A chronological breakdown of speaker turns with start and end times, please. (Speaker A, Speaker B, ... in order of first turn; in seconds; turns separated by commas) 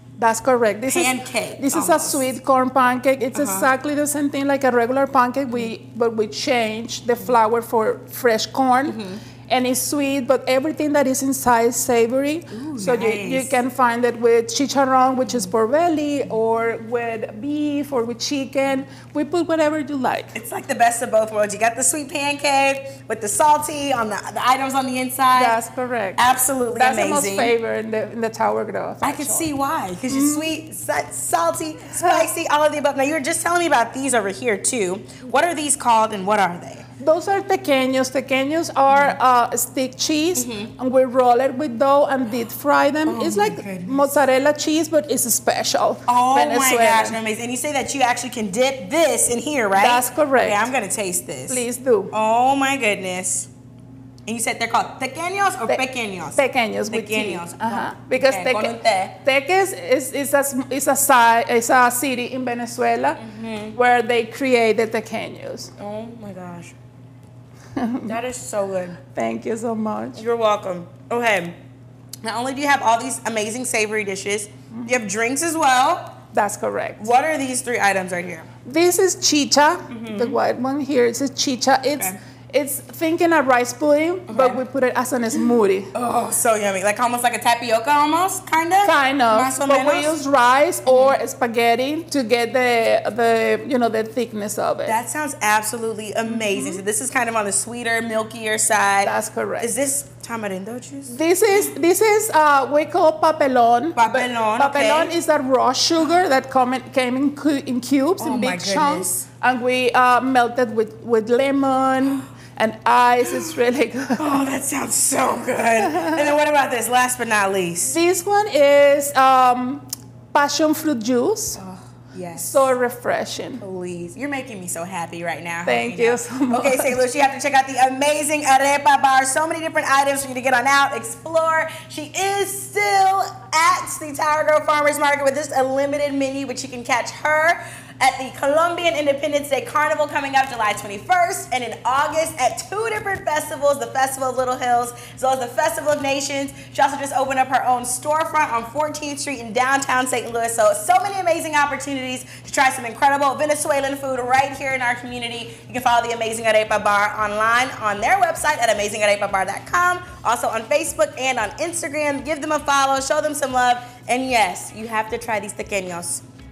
Speaker A: 0.2-20.4, Speaker B: 0.9-2.3, Speaker B: 3.3-3.7, Speaker B: 8.8-9.2, Speaker B: 12.5-13.6, Speaker B: 20.3-25.6, Speaker A: 25.3-26.2, Speaker B: 26.2-27.5, Speaker A: 26.7-29.5, Speaker B: 29.0-36.9, Speaker A: 30.1-30.5, Speaker A: 31.9-32.3, Speaker A: 37.0-47.2, Speaker B: 38.9-39.2, Speaker B: 40.4-40.7, Speaker B: 43.0-44.1, Speaker B: 46.1-53.5, Speaker A: 49.7-50.7, Speaker A: 51.5-52.1, Speaker B: 54.2-59.1, Speaker A: 56.4-63.2, Speaker B: 63.2-63.8, Speaker A: 63.7-65.7, Speaker B: 65.8-66.7, Speaker A: 67.8-68.2, Speaker B: 68.0-69.0, Speaker A: 69.2-70.2, Speaker B: 70.2-71.5, Speaker B: 72.2-76.2, Speaker A: 76.3-77.1, Speaker B: 77.0-78.5, Speaker A: 78.7-85.9, Speaker B: 79.9-80.4, Speaker B: 84.3-84.6, Speaker B: 85.9-90.2, Speaker A: 88.8-95.0, Speaker B: 90.9-91.2, Speaker B: 94.8-101.7, Speaker A: 96.3-96.8, Speaker A: 99.0-99.7, Speaker A: 101.1-114.2, Speaker B: 104.0-105.1, Speaker B: 108.2-109.2, Speaker B: 114.2-118.0, Speaker A: 115.8-116.2, Speaker A: 117.8-121.6, Speaker B: 121.6-122.7, Speaker A: 122.3-123.6, Speaker B: 123.6-166.2, Speaker A: 125.6-127.0